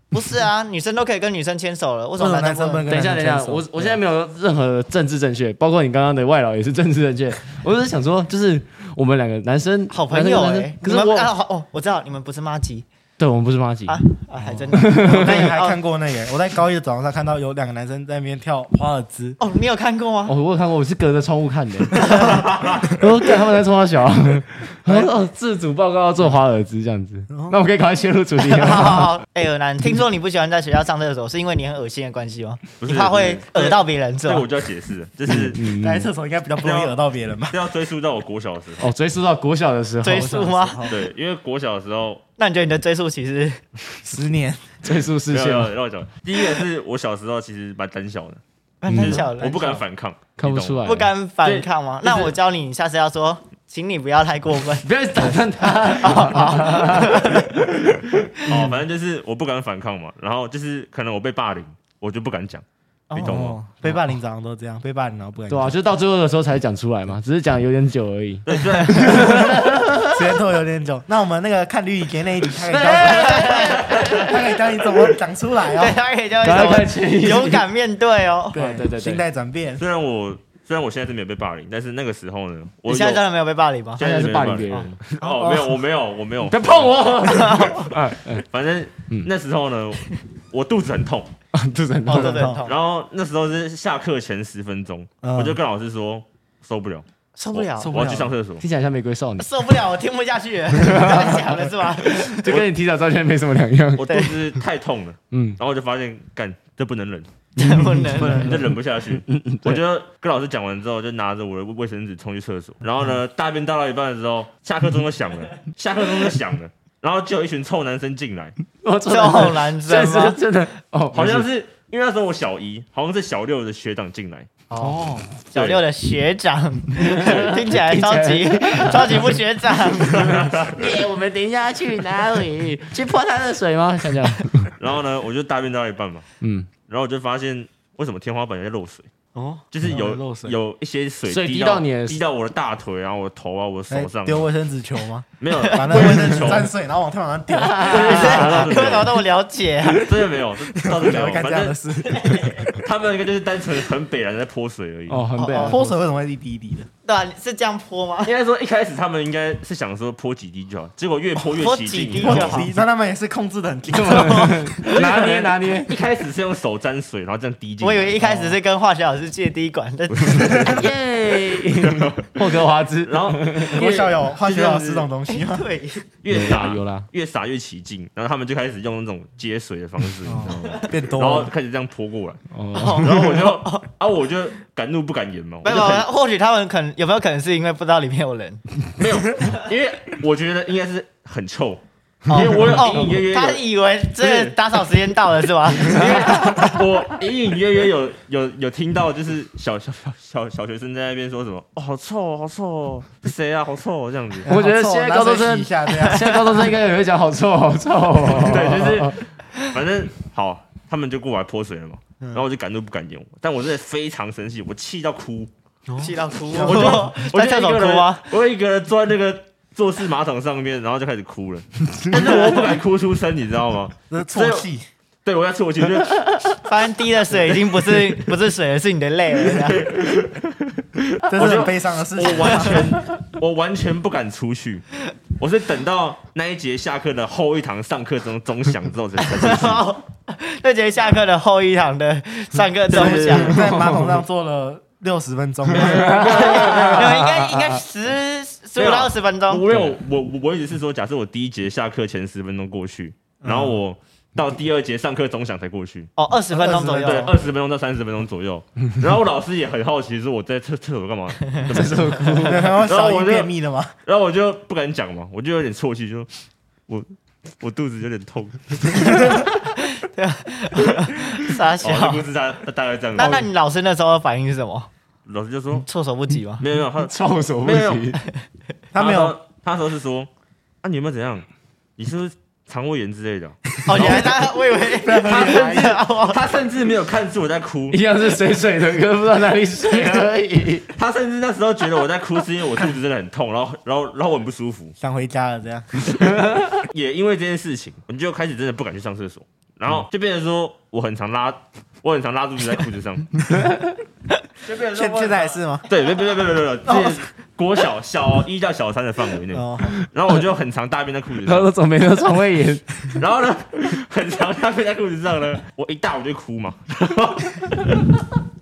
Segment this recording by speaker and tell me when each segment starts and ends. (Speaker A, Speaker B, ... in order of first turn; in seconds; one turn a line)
Speaker A: 0.1-2.9
Speaker B: 2.2-4.0
Speaker C: 2.9-11.3
Speaker A: 9.9-12.8
Speaker C: 13.2-14.0
Speaker A: 13.8-15.8
Speaker B: 14.4-19.4
Speaker C: 14.7-15.4
Speaker A: 19.4-20.3
Speaker C: 20.3-29.1
Speaker D: 22.2-22.9
Speaker B: 24.9-25.1
Speaker B: 27.3-27.6
Speaker A: 28.4-34.5
Speaker D: 32.8-35.6
Speaker C: 35.3-36.1
Speaker B: 35.7-37.6
Speaker D: 36.6-37.0
Speaker D: 37.5-38.9
Speaker C: 38.8-40.3
Speaker A: 40.0-40.9
Speaker B: 40.0-41.0
Speaker D: 40.9-42.2
Speaker A: 42.4-43.6
Speaker B: 44.0-44.8
Speaker C: 44.8-45.7
Speaker D: 45.3-48.4
Speaker A: 48.8-49.8
Speaker C: 48.9-49.3
Speaker D: 48.9-50.9
Speaker C: 50.4-51.1
Speaker A: 50.8-57.6
Speaker D: 51.4-52.3
Speaker C: 54.8-57.7
Speaker D: 58.5-63.6
Speaker A: 63.1-63.4
Speaker B: 63.2-65.8
Speaker C: 65.5-70.1
Speaker D: 68.5-69.4
Speaker B: 69.4-76.0
Speaker C: 72.6-74.7
Speaker A: 73.0-73.9
Speaker A: 75.7-78.6
Speaker C: 76.4-77.6
Speaker C: 78.5-79.2
Speaker B: 78.5-79.8
Speaker D: 79.8-83.2
Speaker A: 82.9-84.0
Speaker D: 84.0-91.3
Speaker C: 84.0-85.6
Speaker A: 84.7-85.5
Speaker C: 86.4-88.4
Speaker A: 87.2-87.9
Speaker C: 91.5-92.4
Speaker A: 92.0-92.7
Speaker B: 92.1-92.6
Speaker D: 92.6-98.6
Speaker B: 95.2-95.6
Speaker A: 97.3-97.9
Speaker B: 97.8-98.3
Speaker C: 98.6-99.5
Speaker A: 99.4-102.6
Speaker C: 100.8-101.4
Speaker C: 102.2-104.0
Speaker D: 104.0-107.3
Speaker A: 104.1-104.3
Speaker C: 105.3-105.6
Speaker A: 107.6-108.5
Speaker B: 108.1-108.6
Speaker D: 108.3-118.5
Speaker C: 109.5-109.8
Speaker C: 118.8-121.5
Speaker A: 119.1-120.4
Speaker D: 121.1-124.5
Speaker A: 124.7-125.0
Speaker B: 124.7-125.3
Speaker C: 124.8-125.1
Speaker A: 125.5-130.4
Speaker D: 125.5-125.8
Speaker C: 127.0-129.3
Speaker D: 130.0-130.9
Speaker C: 130.8-134.7
Speaker D: 134.8-136.2
Speaker C: 136.4-136.7
Speaker D: 136.8-139.1
Speaker B: 139.3-140.6
Speaker D: 139.7-144.5
Speaker C: 141.3-142.2
Speaker B: 143.9-148.5
Speaker D: 145.4-146.7
Speaker C: 147.6-148.9
Speaker D: 147.8-149.2
Speaker A: 147.8-150.1
Speaker D: 149.9-151.8
Speaker B: 150.7-152.8
Speaker A: 152.1-152.6
Speaker D: 152.8-155.2
Speaker C: 155.1-155.9
Speaker A: 155.3-155.8
Speaker B: 155.6-156.9
Speaker A: 157.0-158.3
Speaker D: 158.2-162.7
Speaker A: 161.6-162.7
Speaker B: 162.2-165.2
Speaker C: 163.9-165.9
Speaker D: 164.8-168.5
Speaker A: 167.8-170.8
Speaker D: 170.1-170.9
Speaker C: 170.6-173.8
Speaker D: 171.7-175.1
Speaker B: 173.7-175.6
Speaker A: 175.3-176.1
Speaker D: 176.2-182.4
Speaker C: 176.3-177.1
Speaker B: 180.2-181.5
Speaker C: 182.5-183.2
Speaker A: 182.7-183.8
Speaker D: 183.0-186.1
Speaker A: 185.6-188.6
Speaker D: 189.0-193.6
Speaker A: 192.3-196.4
Speaker D: 194.2-194.6
Speaker D: 195.7-204.5
Speaker B: 204.4-206.8
Speaker C: 204.5-209.1
Speaker D: 208.3-215.5
Speaker B: 215.9-217.1
Speaker A: 216.0-218.3
Speaker D: 216.5-224.7
Speaker B: 222.1-222.6
Speaker B: 224.1-224.9
Speaker D: 225.2-226.6
Speaker A: 226.6-229.9
Speaker D: 229.4-234.8
Speaker B: 231.3-233.0
Speaker D: 235.4-239.9
Speaker A: 239.2-243.6
Speaker D: 242.9-243.6
Speaker B: 242.9-246.2
Speaker C: 243.3-244.2
Speaker D: 245.8-247.3
Speaker C: 245.8-247.8
Speaker A: 246.1-249.6
Speaker D: 248.8-256.1
Speaker B: 253.4-253.8
Speaker A: 256.1-257.3
Speaker B: 256.5-257.3
Speaker D: 257.0-263.5
Speaker A: 261.4-261.8
Speaker C: 261.7-262.7
Speaker B: 262.4-263.9
Speaker D: 264.0-266.3
Speaker D: 266.9-269.3
Speaker A: 269.4-272.3
Speaker D: 271.8-273.5
Speaker A: 273.1-274.9
Speaker D: 275.2-275.9
Speaker A: 275.8-276.6
Speaker D: 276.6-278.2
Speaker C: 277.0-278.2
Speaker B: 278.9-279.4
Speaker D: 278.9-280.3
Speaker D: 280.8-284.3
Speaker A: 283.9-286.5
Speaker B: 283.9-284.4
Speaker B: 285.0-285.8
Speaker D: 285.1-288.0
Speaker C: 287.9-290.9
Speaker D: 290.9-294.9
Speaker B: 295.0-296.1
Speaker C: 296.1-296.7
Speaker D: 296.3-303.5
Speaker D: 304.6-311.7
Speaker B: 304.9-305.9
Speaker B: 309.5-310.0
Speaker C: 311.4-313.1
Speaker D: 313.1-318.1